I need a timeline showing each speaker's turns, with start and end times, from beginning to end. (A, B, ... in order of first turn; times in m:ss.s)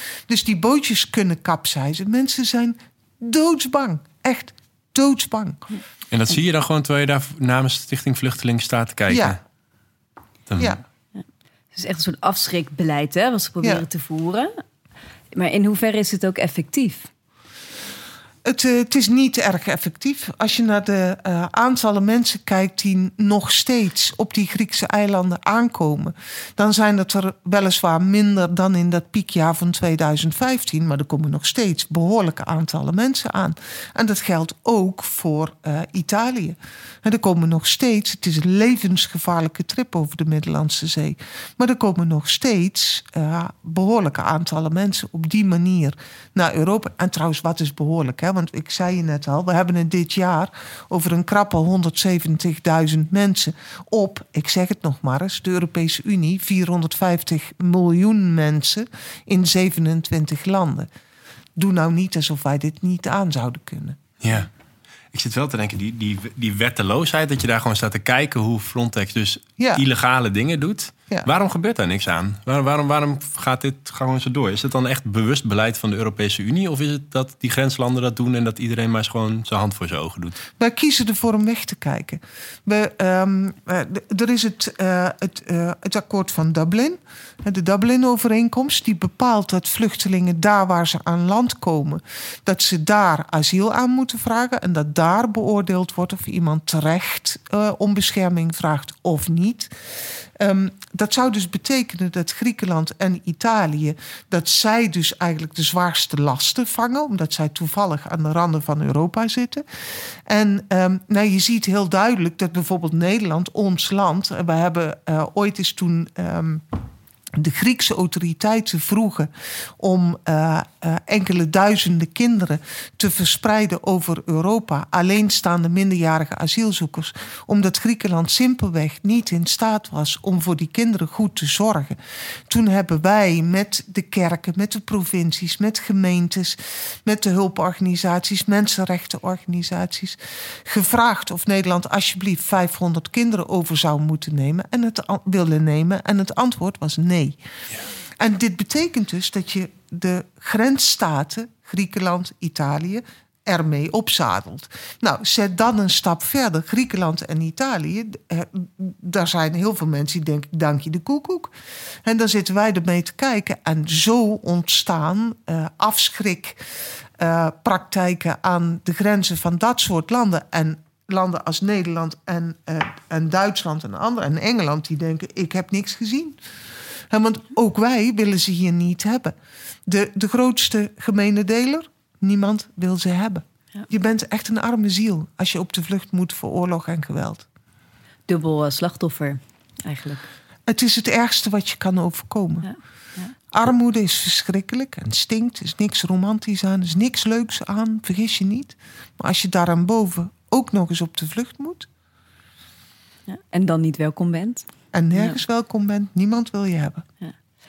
0:00.3-0:05.6 A
0:06.1-0:09.4 B
0:09.1-0:09.4 A
0:10.5-0:10.8 B
0:11.7-0:14.5 C
0:15.3-0:17.1 C
0:18.4-1:00.9 A
1:01.6-1:04.0 A
1:04.2-1:04.5 B
1:05.1-1:20.4 B
1:09.6-1:09.8 A
1:20.6-1:39.7 A
1:40.4-1:49.6 A
1:50.3-1:56.8 A
1:57.4-2:27.4 A
2:28.2-2:41.5 A
2:42.0-2:46.6 A
2:47.2-2:56.4 A
2:57.1-3:07.4 A
3:08.3-3:10.3 C
3:10.7-3:12.7 A
3:12.6-3:13.4 C
3:13.5-3:21.9 A
3:23.3-3:25.4 C
3:24.9-3:27.0 A